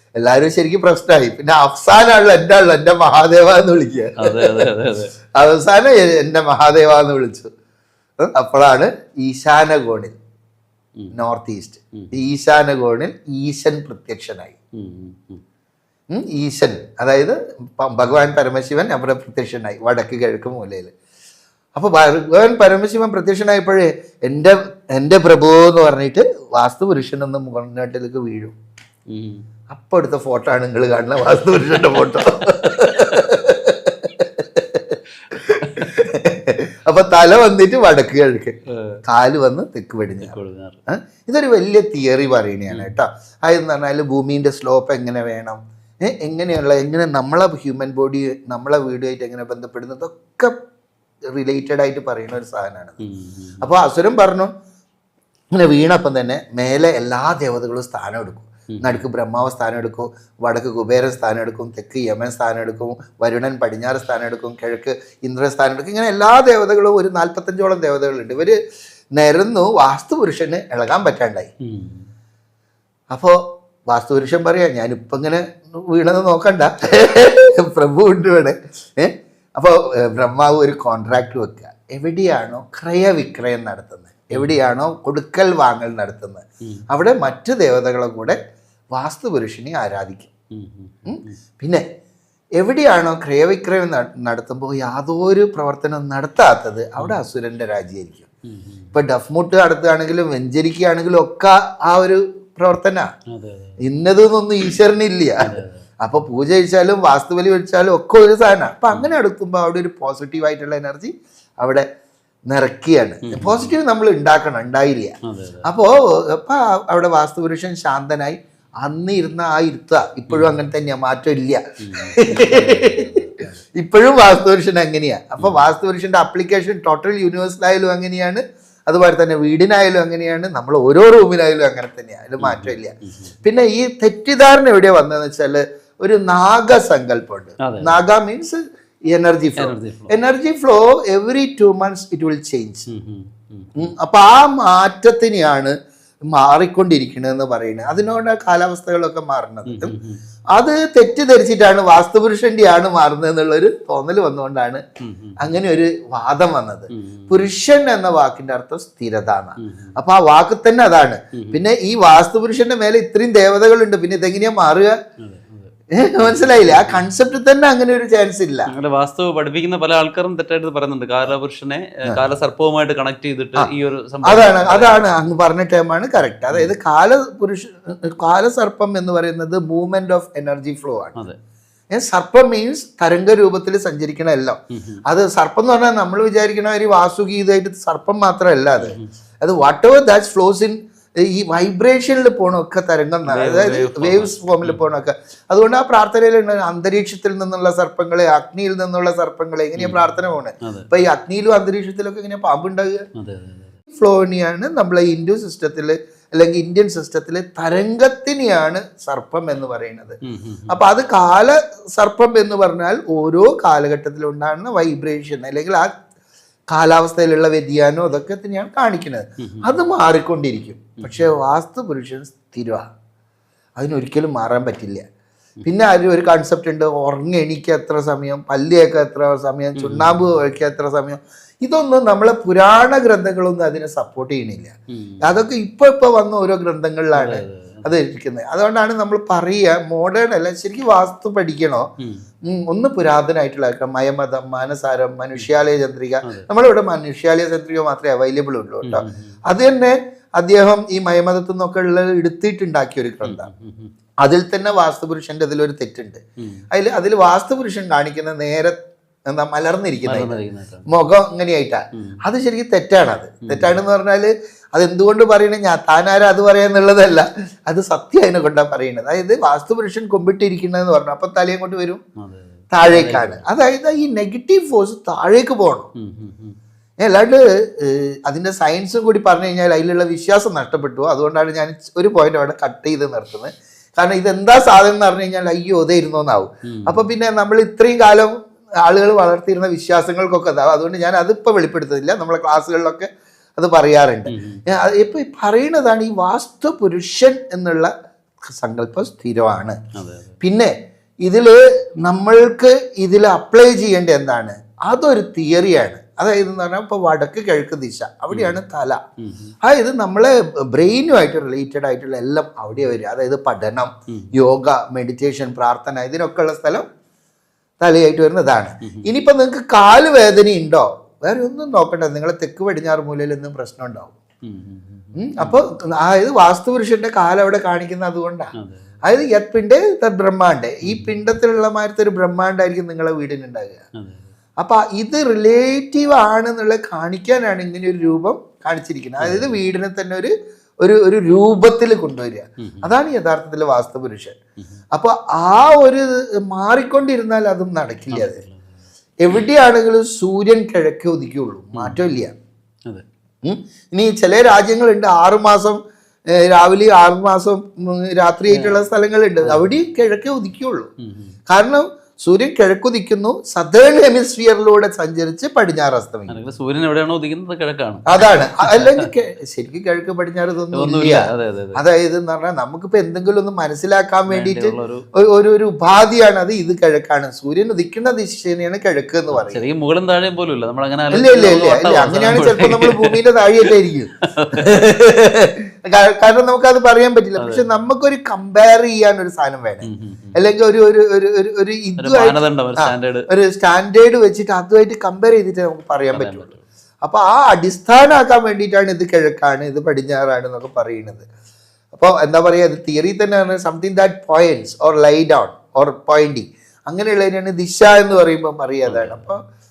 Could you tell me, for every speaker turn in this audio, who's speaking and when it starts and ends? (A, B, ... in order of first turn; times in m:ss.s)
0:00.2-0:04.7 A
0:04.2-0:05.1 B
0:05.3-0:07.5 A
0:08.2-0:10.2 A
0:11.1-0:14.5 A
0:14.8-0:15.4 B
0:16.1-0:20.9 A
0:21.7-0:28.5 A
0:29.1-0:29.4 B
0:29.7-0:40.4 A
0:32.7-0:33.2 B
0:35.6-0:35.9 B
0:38.7-0:39.0 B
0:40.2-0:40.8 B
0:40.9-0:50.5 A
0:42.7-0:43.0 B
0:51.3-0:53.0 A
0:53.0-0:53.6 B
0:53.6-0:54.5 A
0:55.5-1:08.6 A
0:58.7-0:59.0 B
1:09.1-1:11.5 A
1:11.6-1:12.1 B
1:13.1-1:28.4 A
1:28.9-1:30.3 A
1:30.5-1:31.4 B
1:31.0-1:31.8 A
1:32.6-1:38.3 A
1:38.5-1:38.9 B
1:38.9-1:43.1 A
1:43.3-1:43.8 B
1:43.8-1:51.8 A
1:45.4-1:45.9 B
1:52.5-2:03.1 A
1:53.2-1:53.7 B
1:55.2-1:55.7 B
2:00.3-2:00.6 B
2:01.8-2:03.6 B
2:03.8-2:22.9 A
2:12.4-2:13.3 B
2:17.6-2:17.9 B
2:19.6-2:20.2 B
2:22.9-2:23.9 B
2:23.8-2:25.7 A
2:26.3-2:29.9 A
2:29.7-2:30.2 B
2:30.5-2:34.8 A
2:35.0-2:35.6 B
2:35.4-2:44.9 A
2:36.9-2:37.4 B
2:39.6-2:40.0 B
2:41.3-2:41.6 B
2:45.2-2:45.7 B
2:45.9-2:48.7 A
2:46.2-2:47.0 B
2:48.7-2:55.0 B
2:54.2-3:01.2 A
3:01.9-3:23.0 A
3:04.7-3:05.0 B
3:08.8-3:09.1 B
3:13.3-3:14.8 B
3:19.8-3:20.0 B
3:20.6-3:20.9 B
3:23.2-3:23.7 B
3:23.9-3:35.9 A
3:30.3-3:30.8 B
3:36.7-3:42.9 A
3:39.4-3:39.7 B
3:41.0-3:41.3 B
3:43.8-3:45.0 A
3:45.6-4:01.9 A
3:49.8-3:50.2 B
3:54.9-3:55.4 B
3:57.1-3:57.9 B
4:02.0-4:02.2 B
4:02.5-4:13.5 A
4:06.2-4:06.5 B
4:08.8-4:09.4 B
4:13.2-4:13.9 B
4:14.2-4:18.8 A
4:16.4-4:16.6 B
4:19.3-4:32.0 A
4:20.0-4:20.8 B
4:21.9-4:22.2 B
4:23.4-4:23.8 B
4:32.2-4:33.4 B
4:32.7-4:35.9 A
4:36.0-4:36.6 B
4:37.0-4:57.9 A
4:46.7-4:47.0 B
4:54.3-4:54.6 B
4:58.4-4:59.8 A
5:00.0-5:00.4 B
5:00.4-5:00.7 A
5:01.2-5:09.0 A
5:08.3-5:08.6 B
5:09.2-5:09.5 B
5:09.6-5:16.8 A
5:17.8-5:24.2 A
5:18.8-5:19.1 B
5:24.4-5:25.6 B
5:25.2-5:28.5 A
5:28.6-5:29.0 B
5:29.0-5:33.8 A
5:30.8-5:31.1 B
5:34.0-5:34.3 B
5:34.6-5:44.4 A
5:39.2-5:39.6 B
5:42.6-5:42.9 B
5:44.9-5:48.4 A
5:48.1-5:48.7 B
5:49.2-5:52.3 A
5:51.7-5:52.0 B
5:53.4-5:55.8 A
5:56.3-6:00.9 A
5:58.5-5:58.8 B
5:59.4-5:59.7 B
6:01.0-6:01.4 B
6:01.5-6:06.4 A
6:06.3-6:09.0 B
6:08.1-6:19.6 A
6:10.7-6:11.8 B
6:14.3-6:15.0 B
6:19.3-6:23.2 B
6:21.1-6:41.2 A
6:24.4-6:24.7 B
6:27.4-6:27.6 B
6:29.9-6:30.4 B
6:32.0-6:33.3 B
6:36.1-6:36.6 B
6:41.9-6:49.4 A
6:48.8-6:49.3 B